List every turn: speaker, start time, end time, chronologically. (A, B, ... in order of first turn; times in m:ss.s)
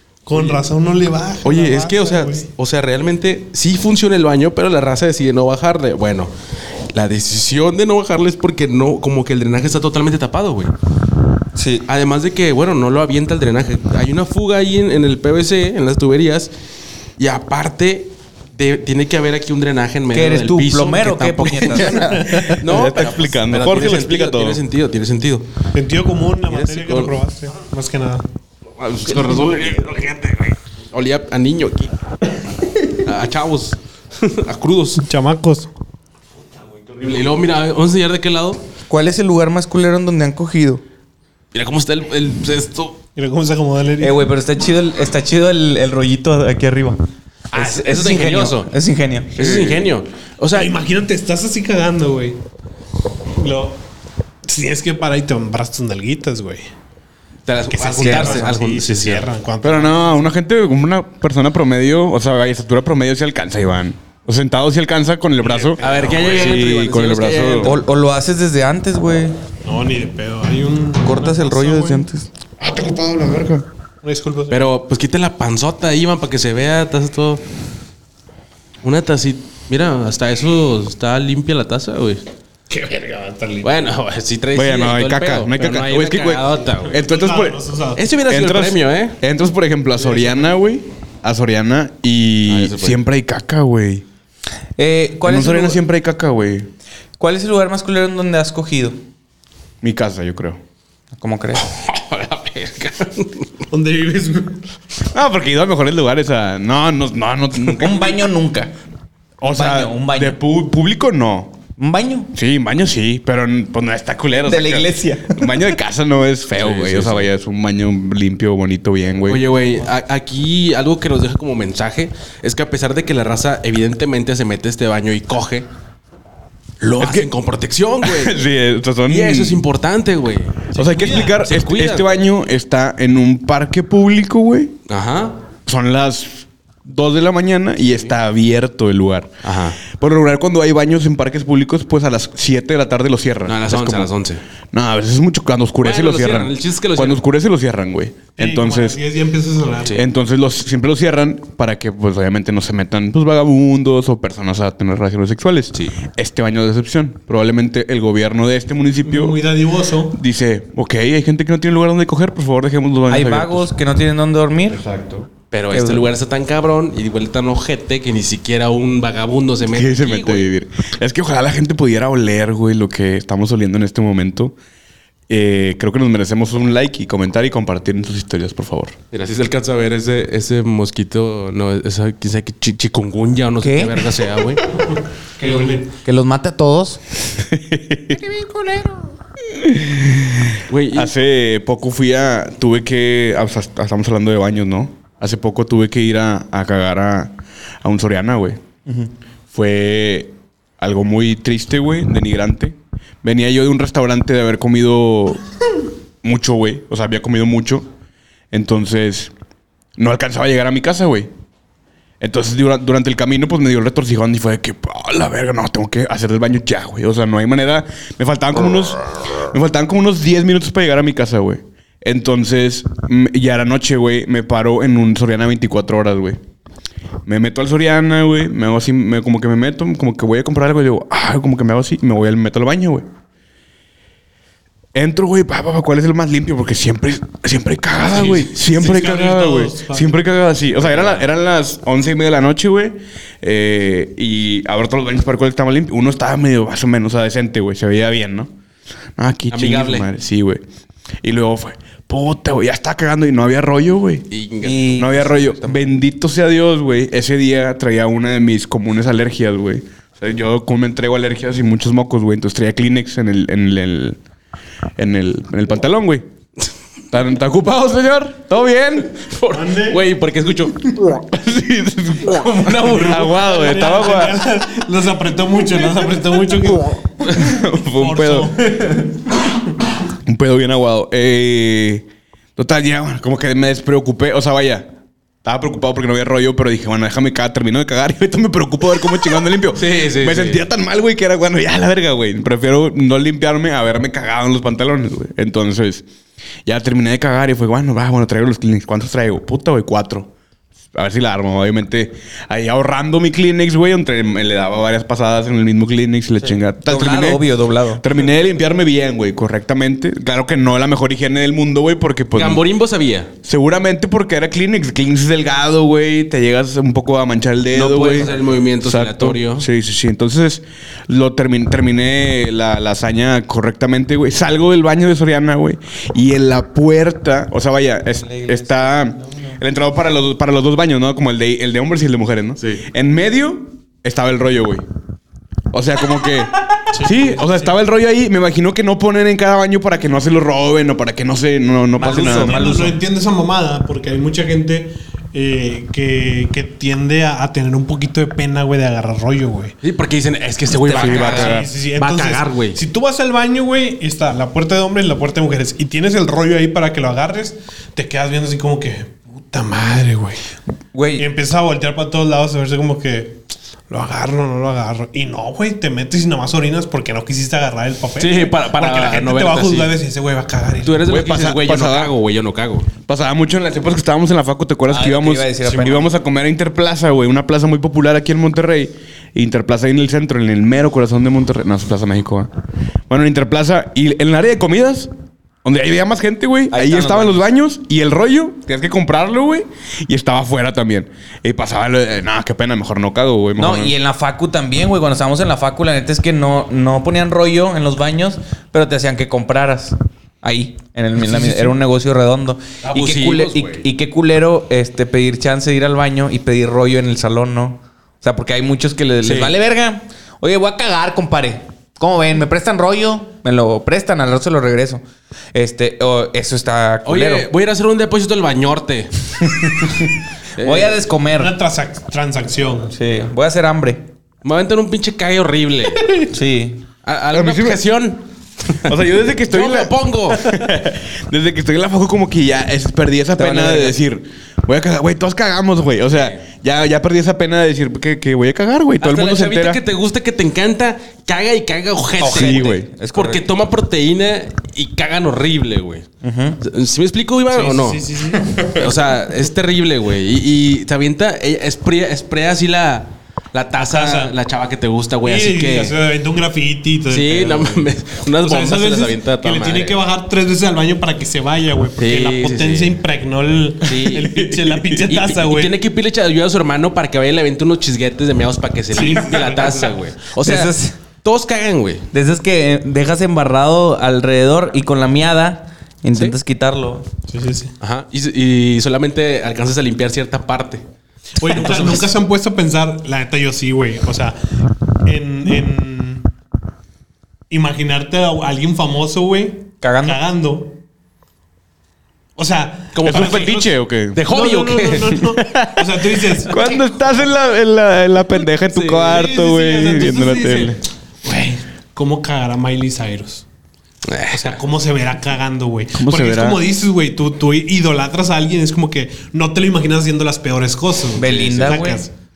0:00.3-0:02.5 A
0:00.3-0:00.6 B
0:01.4-0:06.3 B
0:06.9-0:10.7 B
0:11.6-0:11.9 C
0:11.9-0:16.5 B
0:17.2-0:25.5 B
0:20.1-0:22.6 C
0:21.7-0:22.5 A
0:22.1-0:24.6 D
0:25.7-0:28.2 A
0:26.4-0:27.1 B
0:28.8-0:31.9 B
0:32.9-0:35.0 B
0:35.0-0:35.7 A
0:36.8-0:38.6 B
0:38.9-0:40.8 C
0:41.5-0:43.0 B
0:43.2-0:44.2 A
0:44.0-0:47.0 C
0:47.5-0:48.7 B
0:47.5-0:49.3 C
0:49.4-0:50.7 B
0:49.4-0:49.9 D
0:50.6-0:52.4 A
0:53.4-0:53.8 A
0:54.5-0:56.7 A
0:57.5-0:59.3 B
0:57.7-1:00.3 A
0:58.0-0:58.6 C
0:59.6-1:07.8 D
1:05.4-1:06.6 A
1:05.8-1:07.8 B
1:07.6-1:09.4 C
1:09.6-1:12.1 A
1:11.0-1:12.3 C
1:12.6-1:13.6 D
1:14.0-1:14.7 A
1:14.5-1:17.4 B
1:18.8-1:22.2 B
1:22.7-1:23.9 A
1:23.6-1:27.0 B
1:24.6-1:27.6 D
1:26.9-1:28.0 A
1:28.0-1:29.2 B
1:28.3-1:34.0 D
1:30.0-1:30.5 A
1:32.4-1:33.0 B
1:34.8-1:35.8 C
1:35.3-1:36.7 D
1:37.2-1:39.0 C
1:39.8-1:40.6 D
1:41.2-1:41.7 C
1:41.6-1:43.5 B
1:43.7-1:44.6 A
1:45.1-1:48.2 D
1:47.7-1:48.7 C
1:49.4-1:51.6 D
1:49.5-1:50.4 C
1:51.8-1:52.3 C
1:52.3-1:59.4 D
1:54.5-1:55.8 C
1:56.5-1:57.3 B
1:59.3-2:05.7 B
2:06.8-2:08.4 B
2:07.0-2:07.3 D
2:08.0-2:09.6 D
2:09.1-2:12.1 B
2:10.7-2:14.8 D
2:10.8-2:11.4 A
2:14.9-2:15.4 B
2:15.7-2:24.1 D
2:19.4-2:19.8 B
2:23.5-2:24.4 B
2:24.7-2:29.0 D
2:25.8-2:27.2 B
2:28.4-2:30.1 A
2:30.0-2:39.4 D
2:39.0-2:40.2 A
2:40.1-2:43.7 D
2:43.1-2:44.8 C
2:44.7-2:45.3 D
2:45.5-2:50.5 B
2:45.7-2:46.1 C
2:49.7-2:54.6 D
2:55.3-2:59.0 D
2:59.1-3:04.6 B
3:03.6-3:04.0 C
3:05.4-3:07.0 C
3:05.4-3:05.8 A
3:07.4-3:08.2 D
3:08.4-3:08.9 A
3:09.4-3:18.6 D
3:10.7-3:11.1 B
3:19.5-3:25.4 D
3:26.2-3:27.9 D
3:28.5-3:29.3 D
3:30.0-3:31.3 D
3:32.2-3:46.4 D
3:47.3-3:53.1 D
3:54.9-4:08.5 D
3:58.1-3:58.4 B
3:58.2-4:00.2 A
4:00.8-4:01.2 B
4:09.2-4:10.6 D
4:09.5-4:10.1 B
4:11.2-4:14.3 D
4:14.3-4:15.8 B
4:14.6-4:15.2 C
4:14.9-4:24.2 D
4:25.0-4:26.2 D
4:27.1-4:29.2 D
4:29.1-4:30.8 B
4:29.5-4:30.0 A
4:31.3-4:34.5 D
4:32.7-4:39.3 A
4:32.9-4:33.2 B
4:37.3-4:38.6 D
4:40.2-4:44.9 D
4:45.4-4:56.1 D
4:49.8-4:50.6 B
4:56.6-5:00.3 D
5:00.9-5:12.6 D
5:06.4-5:08.0 C
5:12.3-5:13.3 B
5:13.4-5:18.3 D
5:17.7-5:19.7 B
5:18.8-5:34.8 D
5:28.2-5:29.6 C
5:32.6-5:32.8 B
5:35.7-5:42.7 D
5:36.9-5:37.6 A
5:42.0-5:43.0 C
5:42.0-5:49.8 A
5:49.8-5:52.8 B
5:50.7-5:51.5 C
5:50.9-5:51.7 D
5:51.2-6:00.4 A
6:00.9-6:01.3 C
6:01.2-6:11.1 A
6:08.2-6:09.9 B
6:10.8-6:12.9 B
6:11.1-6:12.1 D
6:13.1-6:22.5 D
6:14.9-6:16.1 C
6:23.1-6:25.1 D
6:25.6-6:33.9 D
6:26.7-6:27.5 C
6:33.6-6:55.0 C
6:41.3-6:41.7 A
6:42.9-6:43.9 B
6:49.2-6:49.5 B
6:55.5-6:57.5 C
6:57.0-6:59.9 B
6:59.5-7:01.6 C
7:00.6-7:01.0 B
7:01.4-7:03.0 A
7:03.0-7:04.1 C
7:04.4-7:06.1 B
7:06.3-7:06.8 C
7:07.0-7:08.9 B
7:07.3-7:07.8 D
7:08.9-7:19.8 D
7:09.5-7:10.7 B
7:13.4-7:14.0 C
7:16.1-7:16.4 B
7:19.0-7:26.1 B
7:22.2-7:23.5 C
7:22.2-7:22.9 D
7:26.2-7:26.6 C
7:26.6-7:28.0 B
7:27.5-7:28.7 A
7:28.4-7:28.7 C
7:28.7-7:36.0 B
7:33.8-7:34.4 A
7:35.2-7:45.8 A
7:37.1-7:40.0 B
7:42.0-7:43.0 B
7:43.8-7:44.4 B
7:44.2-7:45.1 D
7:45.0-7:52.1 B
7:48.9-7:50.0 A
7:49.4-7:49.8 C
7:50.3-7:51.0 C
7:52.1-7:57.1 C
7:57.3-7:57.7 A
7:57.8-8:00.8 B
8:01.4-8:04.4 A
8:01.4-8:02.1 B
8:05.0-8:06.3 A
8:07.5-8:10.8 A
8:09.8-8:10.2 C
8:12.4-8:17.2 A
8:12.9-8:15.2 B
8:13.0-8:14.2 D
8:15.1-8:20.8 D
8:18.7-8:19.2 B
8:18.9-8:23.4 A
8:24.0-8:24.6 B
8:24.3-8:32.1 A
8:26.0-8:26.6 D
8:31.2-8:32.0 C